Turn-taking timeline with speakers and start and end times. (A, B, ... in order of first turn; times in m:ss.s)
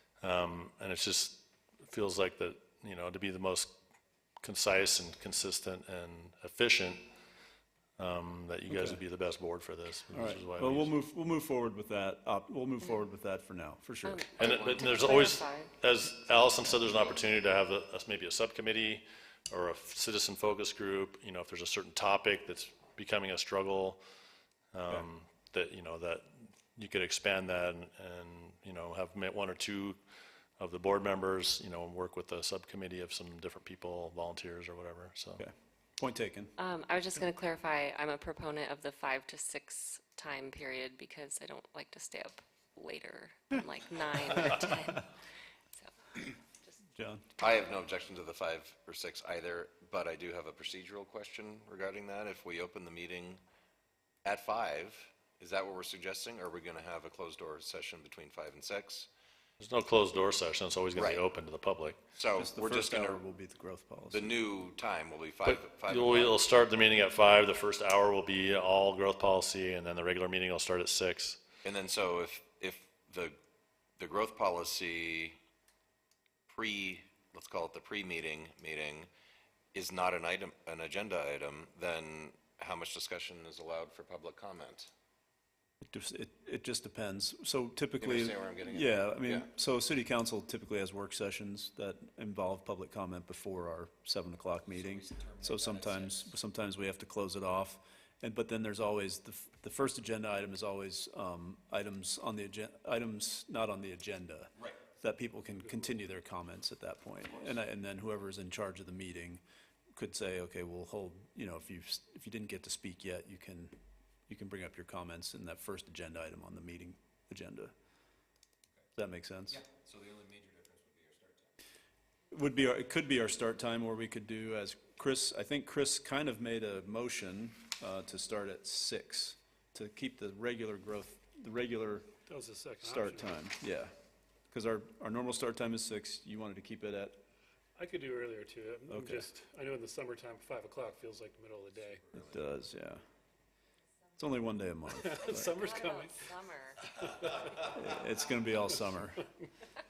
0:00.2-0:03.8 A
0:04.4-0:07.0 A
0:08.0-0:10.9 A
0:08.7-0:09.0 B
0:10.1-0:14.2 B
0:14.0-0:15.7 C
0:14.4-0:24.0 A
0:16.2-0:17.3 C
0:24.7-0:30.0 A
0:30.6-0:35.4 A
0:35.4-0:36.5 B
0:36.6-0:45.1 C
0:46.9-0:47.2 B
0:47.4-0:53.4 D
0:54.2-0:59.1 D
0:59.6-1:02.0 A
1:00.9-1:01.2 D
1:02.1-1:03.2 D
1:02.3-1:04.4 B
1:04.1-1:06.4 D
1:05.4-1:11.4 A
1:11.6-1:13.4 D
1:14.0-1:15.4 D
1:16.5-1:19.1 D
1:19.7-1:24.9 D
1:25.8-1:49.4 B
1:28.0-1:29.5 D
1:34.6-1:36.3 D
1:49.9-1:53.7 B
1:54.3-1:57.7 B
1:59.0-1:59.6 B
1:59.5-2:01.5 D
2:02.3-2:12.1 B
2:12.3-2:13.4 E
2:12.8-2:13.9 B
2:14.5-2:17.2 B
2:17.8-2:22.0 E
2:18.9-2:19.2 B
2:21.7-2:22.6 D
2:22.1-2:23.0 B
2:24.2-2:25.6 B
2:25.0-2:26.3 E
2:25.4-2:26.8 C
2:27.6-2:29.2 B